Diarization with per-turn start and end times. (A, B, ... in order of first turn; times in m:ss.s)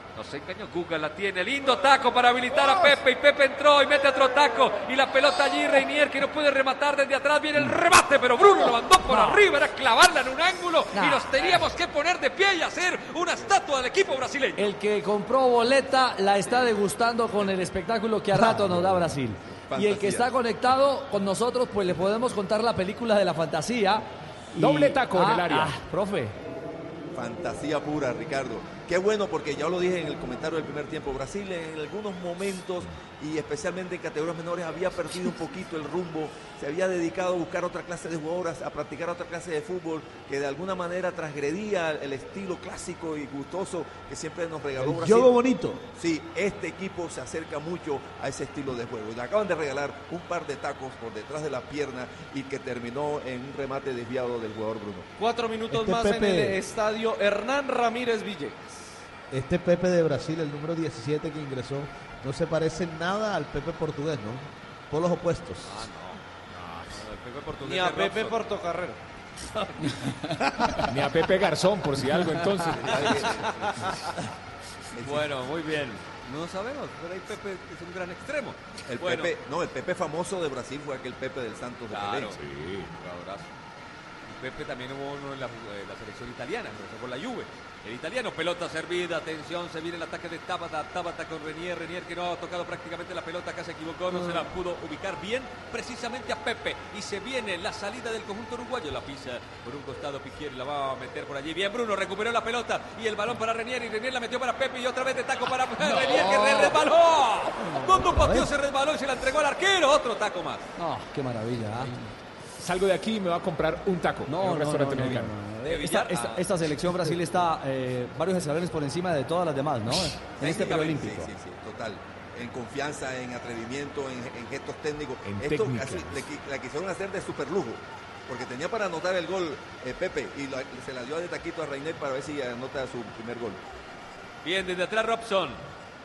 0:00.2-0:14.6 A
0:10.9-0:11.6 B
0:14.6-0:26.4 B
0:19.7-0:20.3 C
0:24.6-0:25.8 D
0:27.1-0:45.4 C
0:44.8-0:45.8 E
0:46.0-0:55.1 C
0:55.2-0:58.9 F
0:55.7-0:56.6 E
0:59.3-1:05.8 E
1:05.6-1:08.4 A
1:07.6-1:09.0 F
1:10.9-1:13.2 D
1:12.9-1:14.0 A
1:13.0-1:13.8 C
1:14.9-1:15.3 C
1:15.0-1:19.3 A
1:18.9-1:22.4 C
1:21.9-1:22.4 A
1:22.4-1:22.9 D
1:22.9-1:23.5 A
1:24.2-1:50.7 A
1:46.0-1:46.6 B
1:47.8-1:48.5 B
1:50.8-1:51.9 B
1:52.6-1:55.3 D
1:54.3-2:01.3 B
1:55.6-1:56.5 A
2:00.4-2:01.0 A
2:00.4-2:13.6 C
2:05.2-2:06.2 D
2:14.4-2:15.6 A